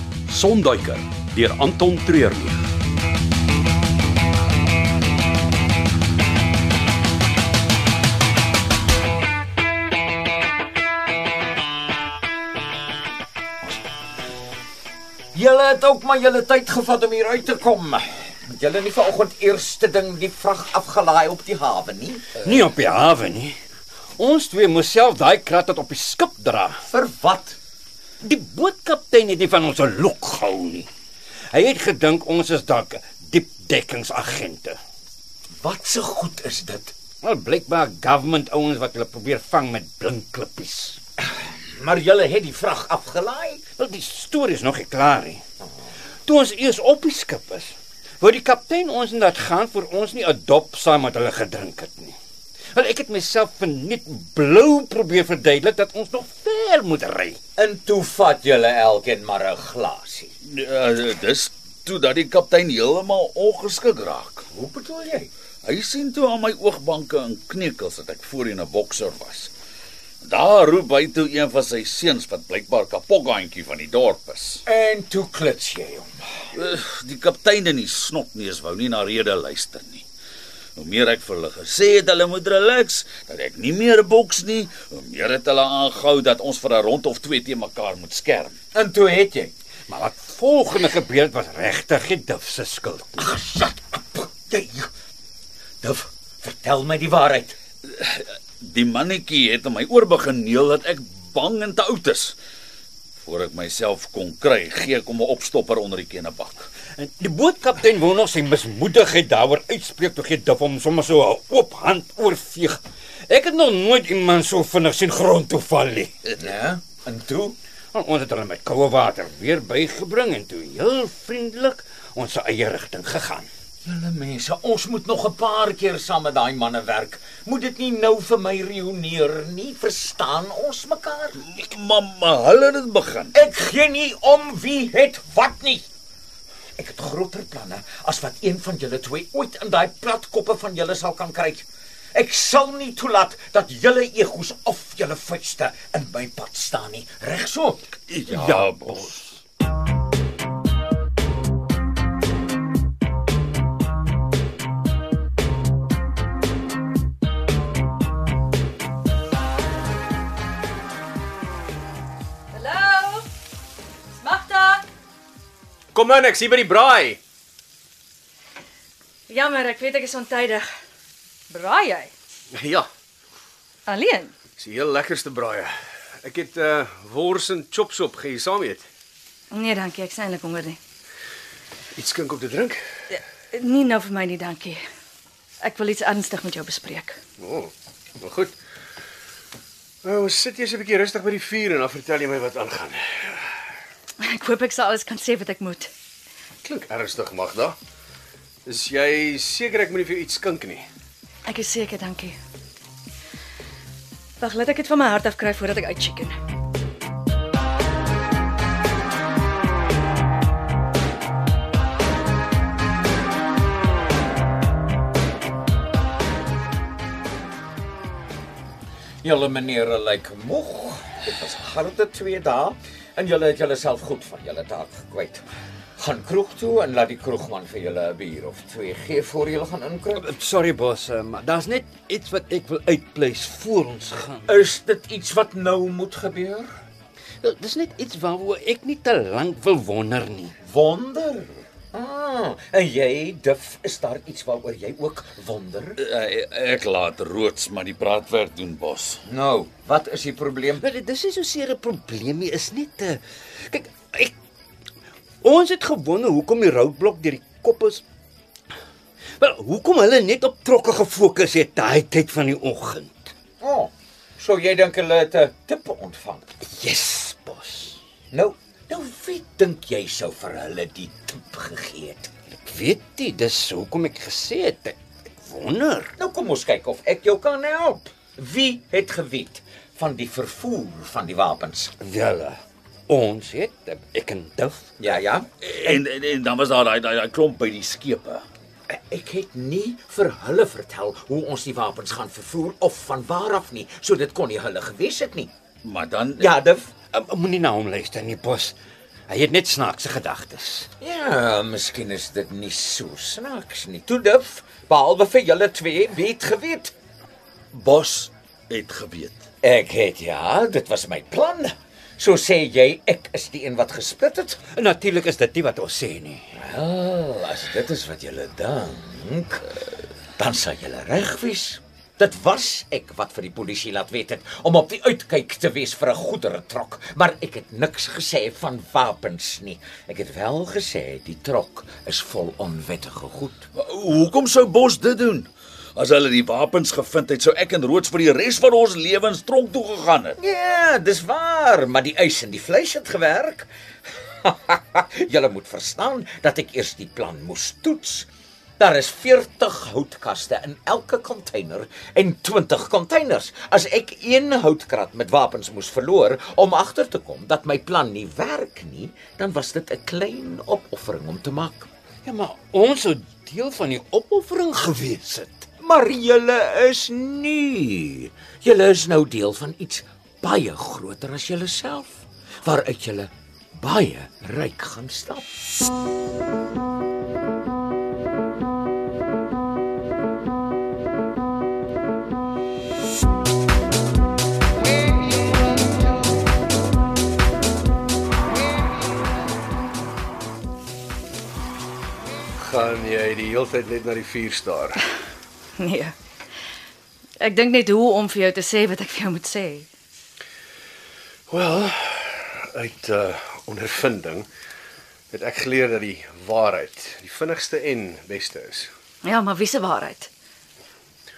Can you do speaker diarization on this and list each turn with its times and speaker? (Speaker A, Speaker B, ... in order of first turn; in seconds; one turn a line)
Speaker A: 0.3-2.5
Speaker B: 15.3-22.4
Speaker C: 22.4-23.6
Speaker C: 24.2-26.8
Speaker B: 26.9-27.6
Speaker C: 28.2-30.9
Speaker C: 31.5-34.8
Speaker B: 35.6-37.0
Speaker C: 37.2-41.0
Speaker B: 41.2-43.6
Speaker C: 43.8-45.4
Speaker C: 46.2-52.2
Speaker C: 52.7-57.4
Speaker B: 57.6-60.3
Speaker D: 60.5-64.5
Speaker B: 64.5-65.3
Speaker D: 65.7-69.5
Speaker D: 70.2-74.6
Speaker B: 74.7-76.1
Speaker D: 76.5-80.0
Speaker D: 80.8-88.6
Speaker B: 88.7-89.5
Speaker C: 89.9-93.3
Speaker B: 93.2-94.9
Speaker B: 95.8-97.6
Speaker D: 97.9-102.4
Speaker D: 103.2-106.7
Speaker C: 107.0-116.1
Speaker B: 116.4-117.6
Speaker C: 117.9-123.5
Speaker B: 123.8-131.4
Speaker D: 131.4-133.3
Speaker B: 133.3-135.9
Speaker B: 136.8-147.9
Speaker D: 148.1-149.1
Speaker C: 148.3-149.2
Speaker E: 162.5-163.3
Speaker E: 164.1-164.8
Speaker F: 165.9-167.2
Speaker E: 169.3-170.7
Speaker E: 171.5-172.1
Speaker F: 172.5-172.9
Speaker E: 173.9-174.3
Speaker F: 174.6-178.9
Speaker E: 179.5-180.8
Speaker F: 182.0-182.8
Speaker E: 183.1-184.8
Speaker E: 185.6-187.2
Speaker F: 187.4-188.5
Speaker F: 190.0-193.5
Speaker E: 194.2-195.9
Speaker F: 196.6-197.8
Speaker F: 198.7-200.8
Speaker E: 201.5-202.4
Speaker E: 204.4-206.3
Speaker B: 219.2-225.4
Speaker B: 226.0-230.2
Speaker C: 230.2-234.5
Speaker B: 234.5-236.7
Speaker C: 237.4-240.5
Speaker B: 240.6-246.0
Speaker D: 246.0-249.2
Speaker B: 249.3-250.8
Speaker C: 250.8-254.3
Speaker C: 255.4-258.0
Speaker C: 259.4-263.3
Speaker B: 263.6-266.6
Speaker C: 266.6-268.0
Speaker B: 268.3-272.3
Speaker C: 272.6-276.1
Speaker B: 276.2-281.9
Speaker C: 282.0-284.9
Speaker B: 285.0-285.9
Speaker D: 285.6-288.4
Speaker B: 288.9-295.5
Speaker D: 295.8-296.5
Speaker B: 296.4-296.9
Speaker C: 297.1-298.8
Speaker C: 299.3-300.9
Speaker B: 301.0-306.9
Speaker D: 307.7-309.4
Speaker B: 309.6-314.6
Speaker C: 314.7-316.6
Speaker B: 316.5-319.8
Speaker B: 320.4-333.7
Speaker D: 333.8-340.4
Speaker B: 340.4-343.7
Speaker B: 344.4-361.9
Speaker C: 362.2-365.7
Speaker B: 365.8-375.5
Speaker F: 392.6-395.0
Speaker E: 395.8-396.1
Speaker E: 397.4-399.9
Speaker F: 401.5-404.5
Speaker F: 405.3-408.9
Speaker E: 409.2-410.3